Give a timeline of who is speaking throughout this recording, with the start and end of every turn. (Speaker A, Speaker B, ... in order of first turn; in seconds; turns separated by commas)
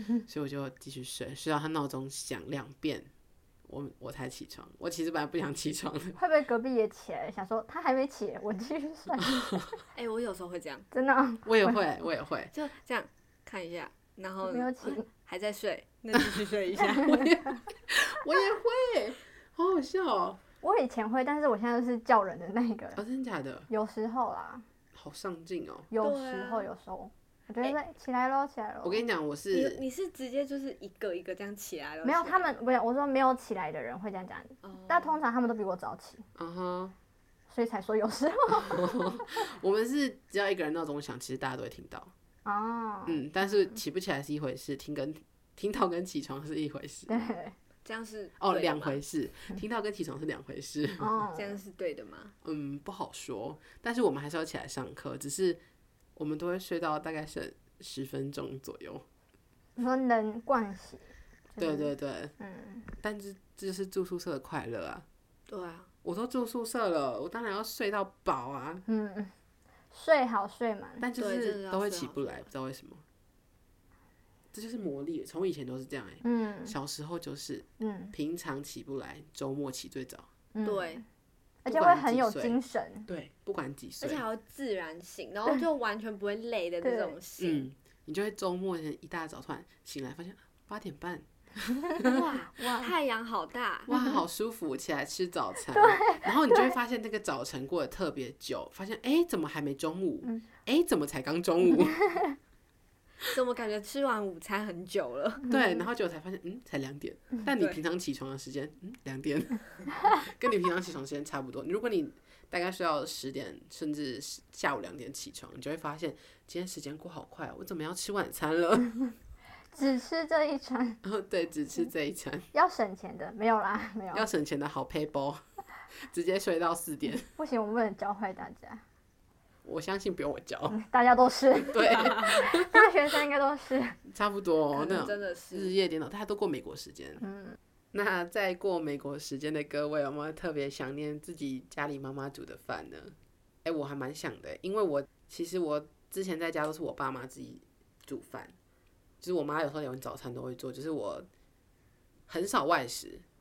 Speaker A: 0.3-3.1, Speaker A: 3.7-6.2, Speaker B: 6.2-9.5, Speaker A: 9.2-9.8, Speaker C: 9.9-10.9, Speaker B: 10.9-11.8, Speaker A: 11.5-12.5, Speaker C: 12.5-17.2, Speaker B: 14.4-15.1, Speaker A: 16.9-20.4, Speaker B: 20.6-23.0, Speaker A: 23.0-23.7, Speaker B: 23.7-24.6, Speaker A: 24.9-25.9, Speaker B: 25.9-29.0, Speaker C: 26.0-26.7, Speaker A: 28.8-29.8, Speaker C: 29.5-32.6, Speaker B: 32.0-36.2, Speaker C: 34.6-35.2, Speaker A: 36.4-36.9, Speaker B: 37.5-39.4, Speaker A: 38.5-42.1, Speaker B: 42.5-43.2, Speaker A: 43.1-47.3, Speaker B: 47.1-47.6, Speaker C: 47.9-49.0, Speaker A: 48.4-51.2, Speaker B: 51.0-51.6, Speaker C: 51.4-52.4, Speaker A: 52.4-55.6, Speaker A: 56.2-59.0, Speaker B: 59.8-62.9, Speaker A: 61.6-62.3, Speaker A: 63.0-65.1, Speaker C: 65.5-65.9, Speaker A: 66.0-68.8, Speaker B: 68.9-69.3, Speaker B: 69.9-71.0, Speaker A: 71.0-73.0, Speaker C: 71.2-72.5, Speaker A: 74.5-80.3, Speaker B: 76.2-76.8, Speaker B: 77.8-78.2, Speaker B: 80.5-81.0, Speaker C: 80.6-81.0, Speaker B: 81.7-83.1, Speaker A: 81.7-84.2, Speaker C: 84.0-87.7, Speaker B: 86.8-87.2, Speaker A: 87.4-92.2, Speaker B: 91.9-92.9, Speaker C: 92.0-93.9, Speaker A: 93.9-102.1, Speaker B: 93.9-94.2, Speaker B: 95.7-96.7, Speaker B: 102.1-102.3, Speaker C: 103.3-105.5, Speaker A: 105.5-119.0, Speaker B: 105.5-105.8, Speaker B: 119.7-121.0, Speaker A: 121.0-122.5, Speaker B: 122.5-124.3, Speaker A: 124.1-125.4, Speaker A: 126.1-127.3, Speaker B: 127.2-128.8, Speaker A: 129.7-130.8, Speaker B: 130.7-134.0, Speaker A: 131.7-132.8, Speaker A: 134.1-137.3, Speaker C: 134.7-135.8, Speaker B: 137.2-137.6, Speaker A: 137.9-148.5, Speaker A: 149.2-151.3, Speaker A: 152.3-153.2